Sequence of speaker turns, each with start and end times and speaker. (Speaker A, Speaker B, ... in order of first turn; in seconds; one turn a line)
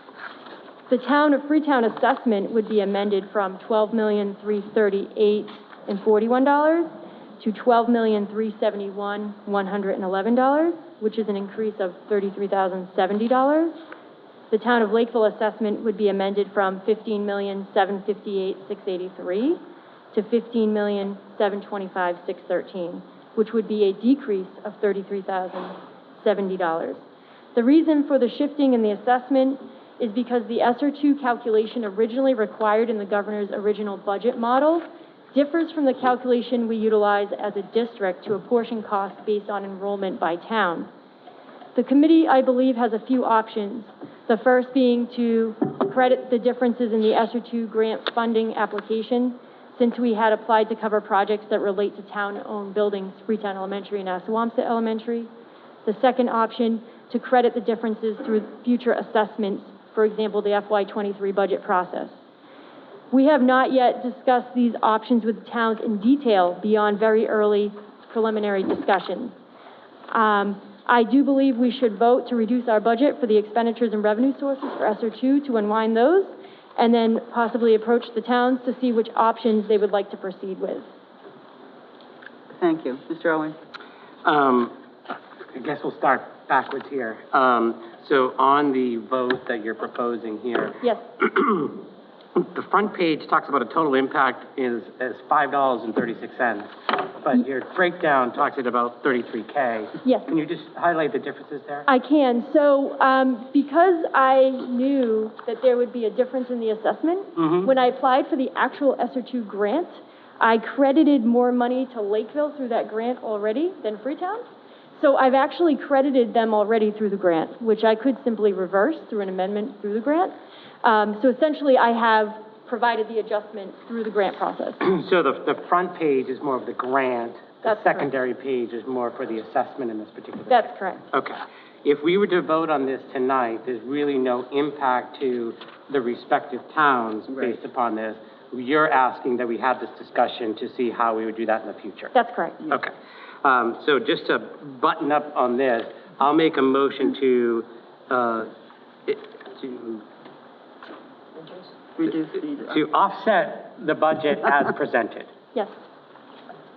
Speaker A: 0.9-13.8
Speaker A: 14.5-19.6
Speaker A: 20.1-27.0
Speaker A: 27.6-40.9
Speaker A: 41.8-55.3
Speaker A: 55.9-62.2
Speaker A: 63.1-69.3
Speaker A: 70.1-80.9
Speaker B: 82.6-83.6
Speaker C: 84.2-84.7
Speaker C: 85.5-91.8
Speaker C: 92.4-101.9
Speaker A: 100.0-100.3
Speaker A: 101.9-114.4
Speaker C: 107.4-107.7
Speaker A: 115.0-124.8
Speaker C: 124.8-142.1
Speaker A: 127.6-128.1
Speaker A: 130.5-131.1
Speaker B: 137.3-137.6
Speaker A: 142.1-142.7
Speaker C: 143.4-148.5
Speaker C: 149.1-150.1
Speaker B: 152.0-152.8
Speaker C: 152.7-155.3